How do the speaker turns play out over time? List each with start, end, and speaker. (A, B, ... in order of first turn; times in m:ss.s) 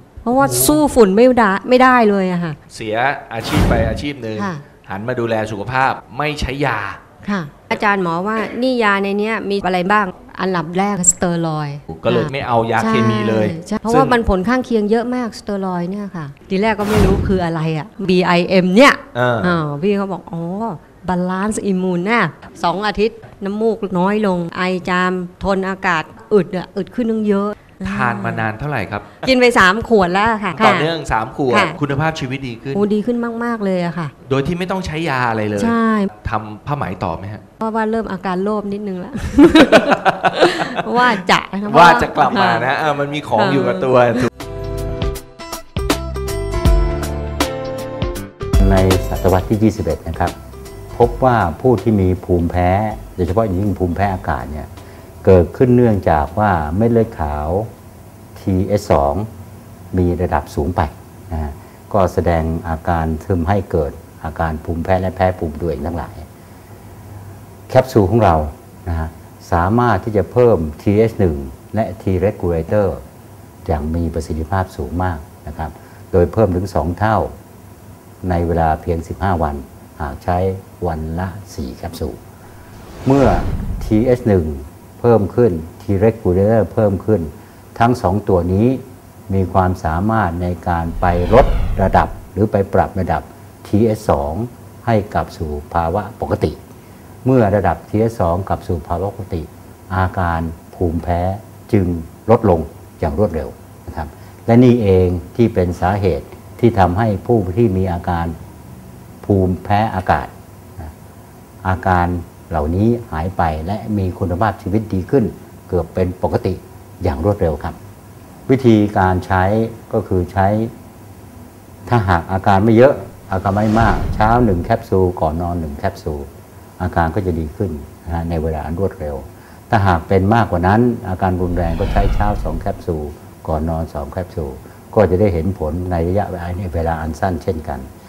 0:00.2-0:02.6 A
0:00.4-0:00.8 B
0:02.7-0:07.0 B
0:04.4-0:04.6 A
0:07.2-0:28.5 A
0:11.9-0:14.2 B
0:19.1-0:19.6 B
0:27.8-0:29.3 B
0:29.2-0:30.9 A
0:30.5-0:32.8 B
0:31.5-0:31.8 A
0:32.7-0:34.1 A
0:34.2-0:37.4 B
0:35.6-0:36.1 A
0:37.6-0:42.7 A
0:39.5-0:44.3 B
0:43.3-0:44.3 A
0:48.6-0:50.3 C
0:50.9-0:54.7 C
0:55.2-0:57.7 C
0:58.3-0:59.3 C
0:59.9-1:06.3 C
1:07.7-1:13.0 C
1:13.6-1:17.3 C
1:18.2-1:22.2 C
1:23.0-1:36.6 C
1:37.2-1:48.4 C
1:49.2-1:50.9 C
1:51.6-1:57.8 C
1:58.5-2:00.7 C
2:01.8-2:17.9 C